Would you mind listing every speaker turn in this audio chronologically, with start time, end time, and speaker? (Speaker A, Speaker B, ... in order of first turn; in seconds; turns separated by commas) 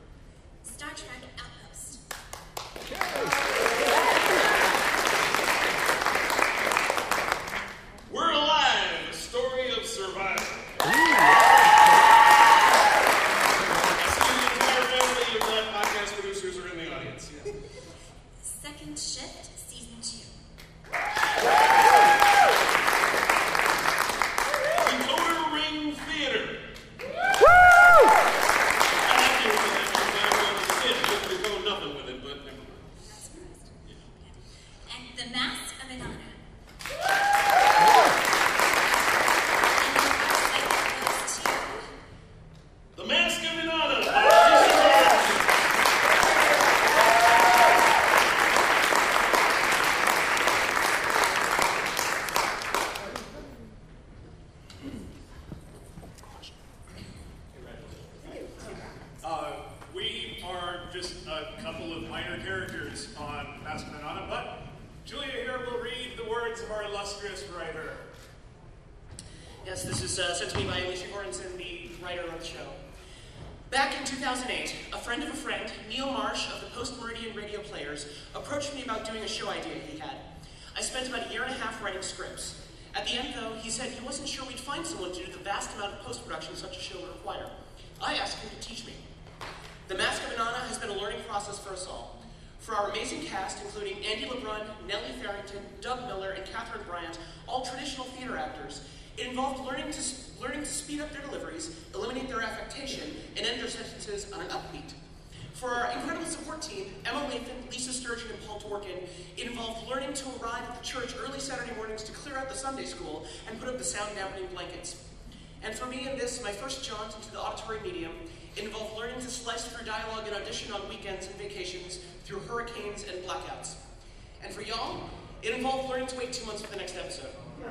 Speaker A: 0.6-2.0, Speaker B: 8.1-10.7, Speaker B: 13.9-17.5, Speaker A: 18.4-20.3, Speaker B: 24.8-26.6, Speaker B: 29.0-32.9, Speaker A: 33.0-34.4, Speaker A: 34.9-36.4, Speaker A: 39.8-41.9, Speaker B: 42.9-45.5, Speaker C: 59.2-68.0, Speaker D: 69.6-72.8, Speaker D: 73.7-80.2, Speaker D: 80.7-89.0, Speaker D: 89.9-105.0, Speaker D: 105.5-115.0, Speaker D: 115.6-123.8, Speaker D: 124.4-127.3